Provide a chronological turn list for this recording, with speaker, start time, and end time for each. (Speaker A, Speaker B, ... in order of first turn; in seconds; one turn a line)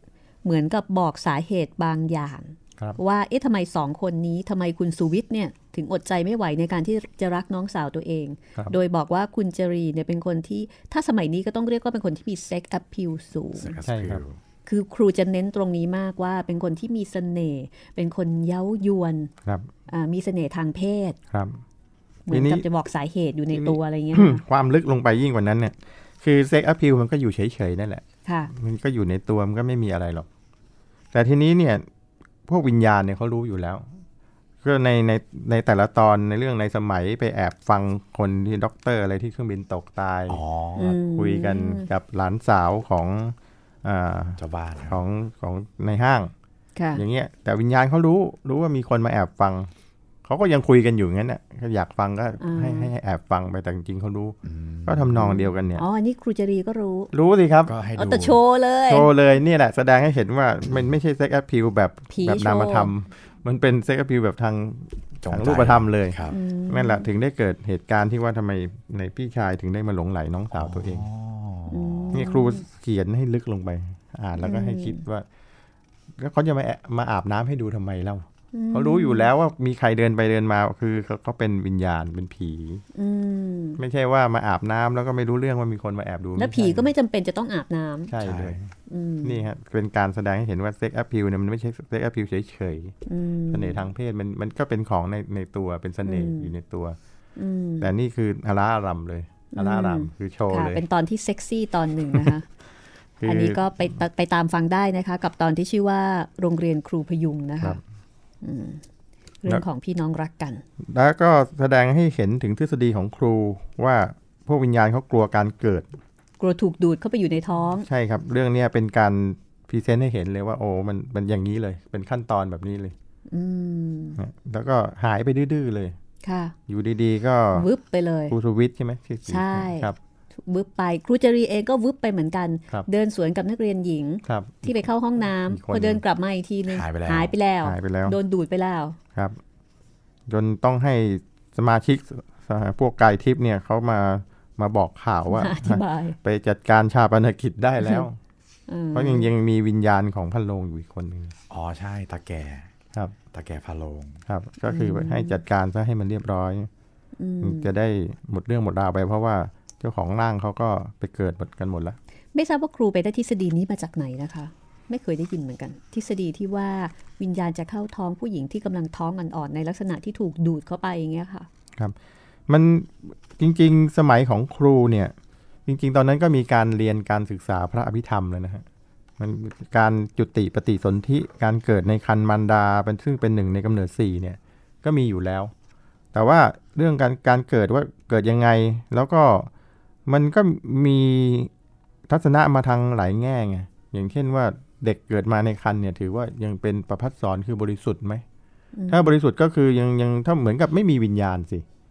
Speaker A: 0.4-13.8
Speaker B: 13.6-14.4
Speaker C: 13.8-14.2
Speaker A: 14.7-19.3
Speaker A: 19.9-21.2
Speaker C: 21.3-21.6
Speaker A: 22.3-24.4
Speaker C: 22.3-22.6
Speaker C: 23.5-30.3
Speaker A: 28.2-28.5
Speaker C: 31.1-31.9
Speaker C: 32.5-33.9
Speaker C: 34.6-40.4
Speaker B: 40.3-41.0
Speaker A: 40.8-41.9
Speaker C: 41.0-46.3
Speaker B: 44.4-45.0
Speaker A: 46.8-47.0
Speaker C: 46.9-49.7
Speaker C: 50.2-55.8
Speaker A: 52.4-52.9
Speaker B: 54.4-55.4
Speaker A: 55.2-57.1
Speaker C: 57.1-57.7
Speaker B: 57.6-58.4
Speaker A: 57.9-59.1
Speaker C: 58.9-71.0
Speaker A: 62.1-62.9
Speaker B: 65.2-66.4
Speaker A: 66.3-67.0
Speaker B: 70.5-72.2
Speaker A: 71.7-72.6
Speaker C: 72.1-75.2
Speaker A: 74.4-75.0
Speaker C: 76.2-82.8
Speaker A: 78.5-79.3
Speaker A: 82.9-83.8
Speaker C: 83.8-86.9
Speaker A: 86.4-88.1
Speaker C: 88.1-88.7
Speaker B: 88.2-88.5
Speaker A: 88.9-89.4
Speaker C: 89.2-92.9
Speaker A: 93.0-93.8
Speaker C: 93.5-97.0
Speaker A: 96.0-96.5
Speaker A: 97.3-97.9
Speaker C: 97.8-100.8
Speaker A: 99.5-102.5
Speaker C: 103.2-103.7
Speaker A: 103.2-107.8
Speaker A: 108.4-108.8
Speaker A: 109.4-110.6
Speaker C: 110.8-115.9
Speaker A: 116.4-117.9
Speaker C: 117.8-122.9
Speaker A: 123.3-124.2
Speaker C: 124.2-126.0
Speaker A: 126.2-126.5
Speaker C: 126.7-127.7
Speaker A: 127.5-128.3
Speaker C: 128.3-130.0
Speaker A: 129.3-139.0
Speaker C: 134.2-134.9
Speaker C: 135.4-136.0
Speaker B: 136.7-137.3
Speaker C: 137.6-138.2
Speaker C: 140.3-148.2
Speaker A: 145.3-146.2
Speaker A: 148.7-149.3
Speaker C: 148.9-151.3
Speaker B: 151.5-152.7
Speaker B: 153.3-154.2
Speaker C: 154.3-156.7
Speaker A: 154.7-155.4
Speaker A: 157.2-157.7
Speaker C: 157.4-162.0
Speaker A: 162.3-171.5
Speaker C: 172.5-175.1
Speaker C: 175.7-178.6
Speaker C: 179.2-185.5
Speaker C: 186.1-189.5
Speaker C: 190.1-191.5
Speaker C: 192.1-198.2
Speaker A: 198.7-199.1
Speaker C: 198.9-201.6